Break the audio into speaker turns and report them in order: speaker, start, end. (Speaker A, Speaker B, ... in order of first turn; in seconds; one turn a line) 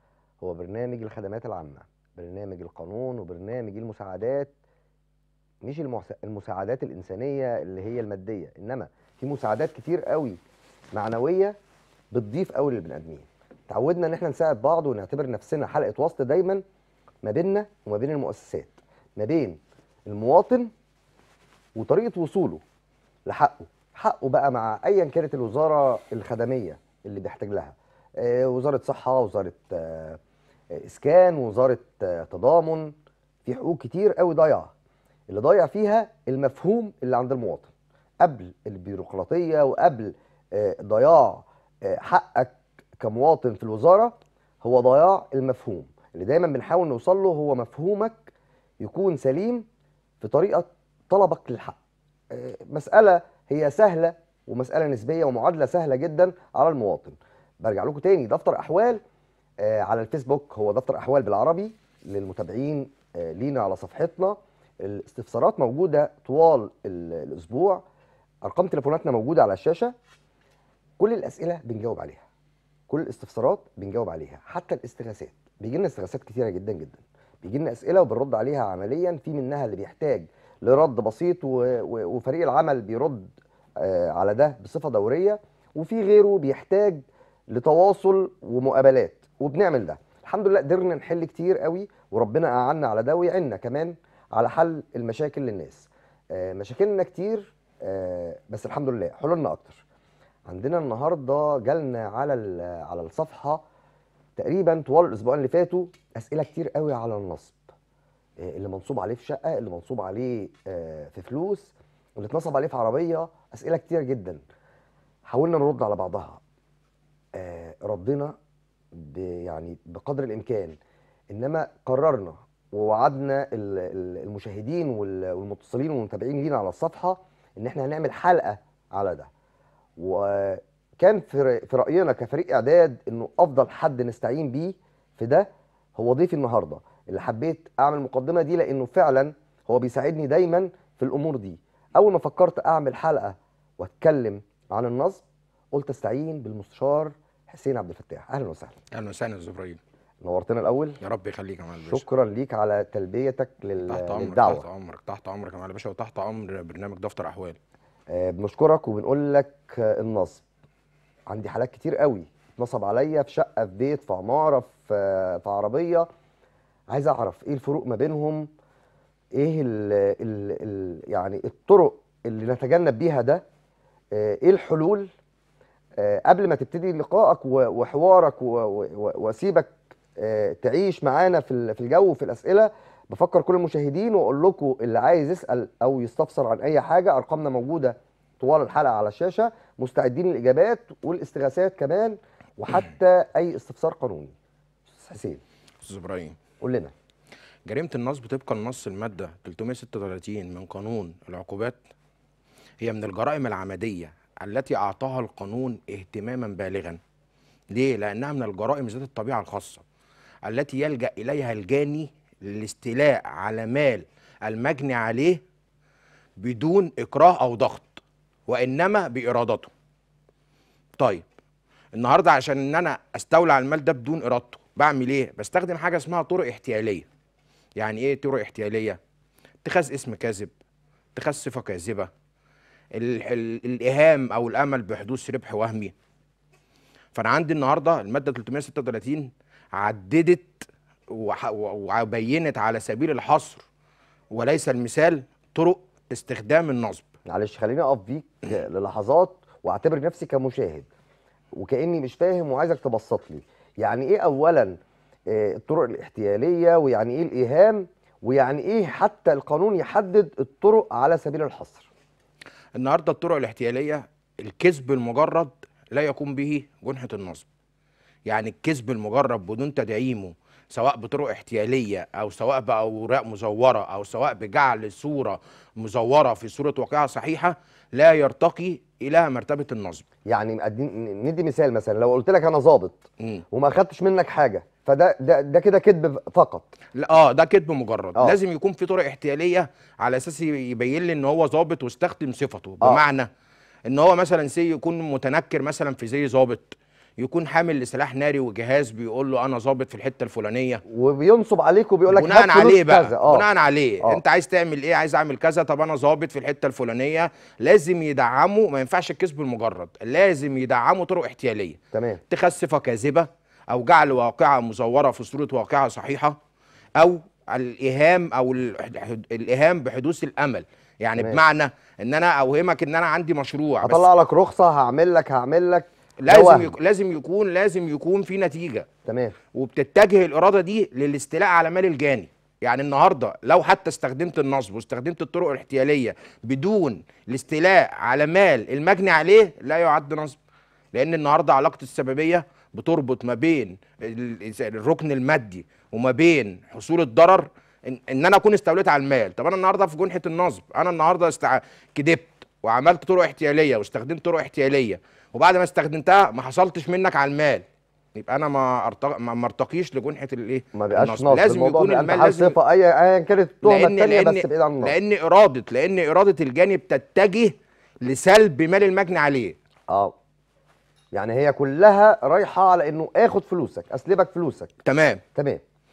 Speaker A: 0.4-4.5
Speaker A: 5.6-10.4
Speaker A: 10.9-11.6
Speaker A: 12.1-16.6
Speaker A: 17.2-20.7
Speaker A: 21.8-22.6
Speaker A: 23.2-30.2
Speaker A: 30.7-32.9
Speaker A: 33.4-34.7
Speaker A: 35.3-37.7
Speaker A: 38.2-48.3
Speaker A: 48.8-49.6
Speaker A: 50.2-51.8
Speaker A: 52.3-59.0
Speaker A: 59.6-67.8
Speaker A: 68.4-69.9
Speaker A: 71.0-72.2
Speaker A: 72.9-99.8
Speaker A: 100.5-103.6
Speaker A: 104.4-107.7
Speaker A: 108.4-114.4
Speaker A: 115.2-116.4
Speaker A: 117.3-118.3
Speaker A: 118.9-120.8
Speaker A: 121.3-129.3
Speaker A: 130.0-148.8
Speaker B: 148.9-149.8
Speaker A: 150.2-151.0
Speaker B: 151.0-152.0
Speaker A: 151.8-154.7
Speaker B: 153.8-157.6
Speaker A: 158.1-160.4
Speaker A: 161.3-166.1
Speaker A: 166.9-168.5
Speaker A: 169.3-173.4
Speaker A: 174.1-175.1
Speaker A: 176.0-194.3
Speaker A: 194.9-195.4
Speaker B: 195.8-196.3
Speaker A: 196.6-196.9
Speaker B: 197.7-201.8
Speaker B: 202.8-207.0
Speaker B: 207.7-209.8
Speaker B: 210.4-215.4
Speaker B: 216.4-219.7
Speaker B: 221.9-227.1
Speaker B: 227.8-229.0
Speaker B: 229.6-230.5
Speaker B: 231.2-232.1
Speaker B: 232.9-235.9
Speaker B: 237.1-243.6
Speaker B: 244.3-247.1
Speaker A: 247.3-250.9
Speaker A: 251.5-261.9
Speaker B: 262.8-267.4
Speaker B: 268.3-280.1
Speaker A: 280.3-286.7
Speaker B: 286.9-293.3
Speaker B: 293.9-300.8
Speaker A: 300.9-303.4
Speaker B: 302.1-311.8
Speaker A: 311.9-312.2
Speaker B: 312.3-316.4
Speaker B: 317.0-324.1
Speaker A: 323.8-326.7
Speaker B: 326.2-328.9
Speaker A: 329.0-329.4
Speaker B: 329.5-340.4
Speaker B: 340.9-362.6
Speaker A: 360.7-364.9
Speaker B: 363.6-369.6
Speaker A: 369.9-370.1
Speaker A: 371.1-374.7
Speaker B: 374.9-375.2
Speaker A: 375.3-375.6